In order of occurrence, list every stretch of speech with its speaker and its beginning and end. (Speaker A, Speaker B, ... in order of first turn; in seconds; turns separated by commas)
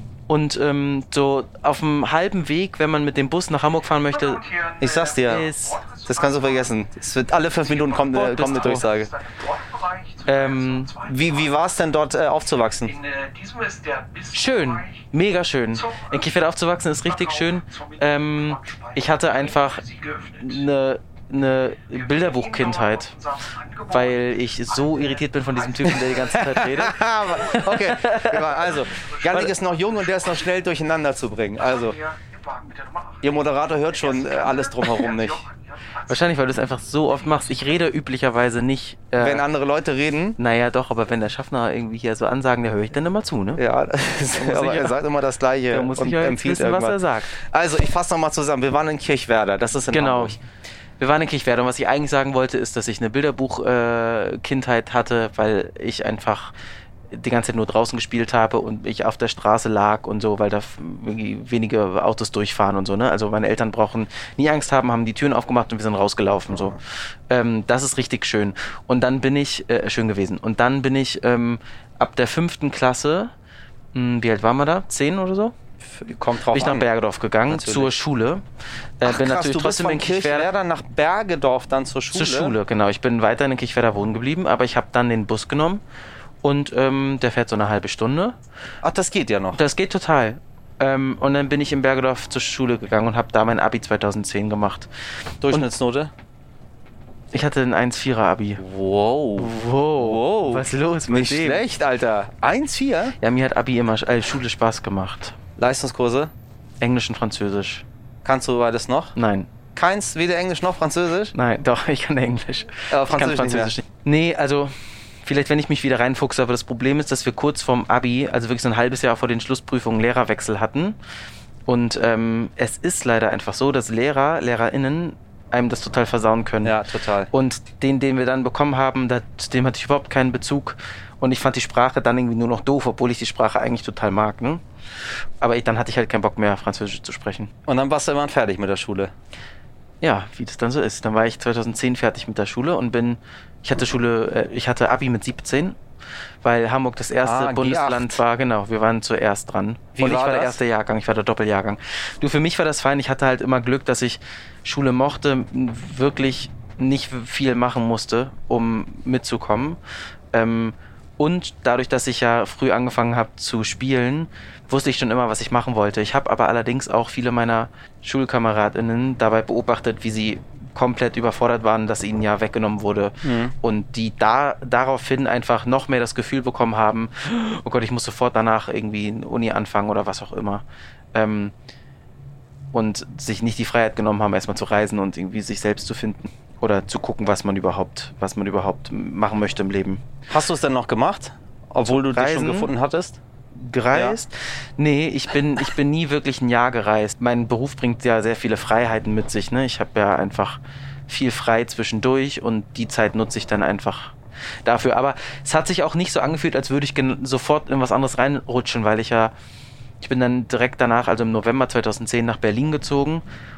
Speaker A: 0.3-4.4, Speaker B: 4.1-6.7, Speaker C: 4.8-5.5, Speaker A: 5.2-5.8, Speaker C: 6.0-9.1, Speaker B: 7.6-11.8, Speaker A: 8.1-8.9, Speaker A: 10.3-10.9, Speaker C: 11.0-12.9, Speaker B: 12.8-15.1, Speaker A: 14.3-19.8, Speaker B: 15.7-16.2, Speaker B: 17.0-20.7, Speaker A: 20.4-23.1, Speaker B: 21.9-26.7, Speaker A: 23.9-28.6, Speaker C: 26.3-32.0, Speaker B: 28.5-30.4, Speaker B: 31.6-36.4, Speaker C: 33.2-35.5, Speaker A: 36.1-39.5, Speaker C: 39.2-40.4, Speaker A: 40.4-43.6, Speaker C: 43.6-50.4, Speaker A: 44.4-45.0, Speaker A: 45.7-47.3, Speaker A: 49.9-50.4, Speaker A: 51.0-56.5, Speaker A: 57.1-66.8, Speaker A: 67.3-73.3, Speaker A: 73.9-75.5, Speaker C: 75.8-76.9, Speaker A: 76.5-78.4, Speaker C: 77.5-78.0, Speaker A: 79.0-80.5, Speaker C: 79.0-82.6, Speaker A: 82.1-85.8, Speaker A: 86.4-88.4, Speaker C: 88.8-89.6, Speaker A: 89.5-94.9, Speaker C: 95.4-96.1, Speaker A: 97.3-98.6, Speaker C: 98.6-103.2, Speaker A: 99.4-101.6, Speaker A: 103.2-105.4, Speaker C: 105.6-106.3, Speaker A: 106.8-107.8, Speaker C: 108.2-109.1, Speaker A: 109.2-109.5, Speaker C: 109.8-111.3, Speaker A: 111.3-121.0, Speaker C: 112.9-113.8, Speaker A: 121.7-126.8, Speaker C: 126.6-127.3, Speaker A: 127.3-134.6, Speaker A: 135.4-137.5, Speaker C: 137.7-139.1, Speaker A: 140.0-145.8, Speaker A: 146.4-159.8, Speaker C: 147.2-148.2, Speaker C: 150.0-150.6, Speaker A: 160.3-180.6, Speaker C: 173.2-173.5, Speaker A: 181.1-181.5, Speaker A: 182.7-190.0, Speaker C: 190.3-193.2, Speaker A: 191.9-192.7, Speaker A: 193.6-209.3, Speaker C: 193.9-194.2, Speaker A: 210.0-213.2